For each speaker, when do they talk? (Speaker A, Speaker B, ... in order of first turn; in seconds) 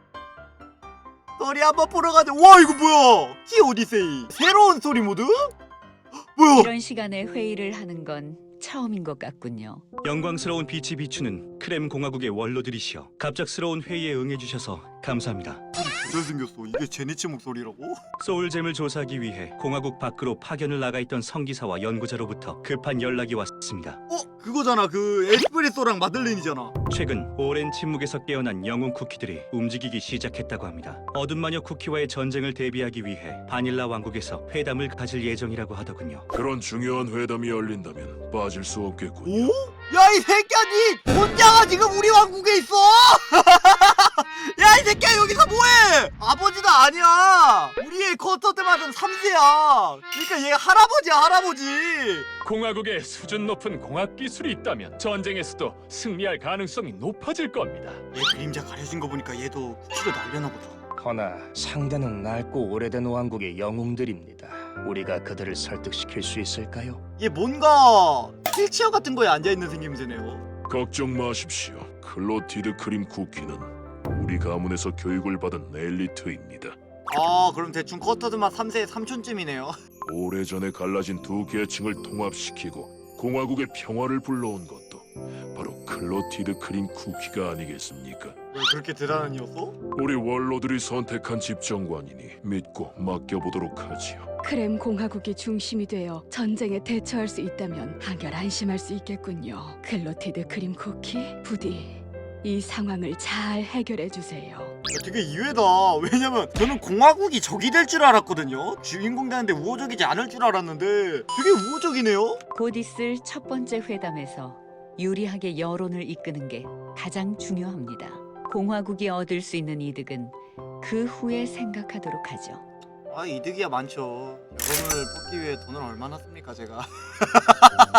Speaker A: 1.4-5.5, 6.4-6.7, 15.8-18.0, 24.1-26.7, 39.2-52.3, 58.1-60.8, 67.2-70.5, 77.1-79.8, 88.5-89.8, 104.9-112.4, 123.1-127.9
Speaker B: 6.6-9.8, 112.5-122.6
Speaker C: 10.0-15.6, 18.2-24.0, 26.9-36.3
Speaker D: 36.3-39.5, 70.7-76.8, 80.0-88.4, 90.0-94.3
Speaker E: 52.5-58.0
Speaker F: 61.0-67.0
Speaker G: 94.4-104.7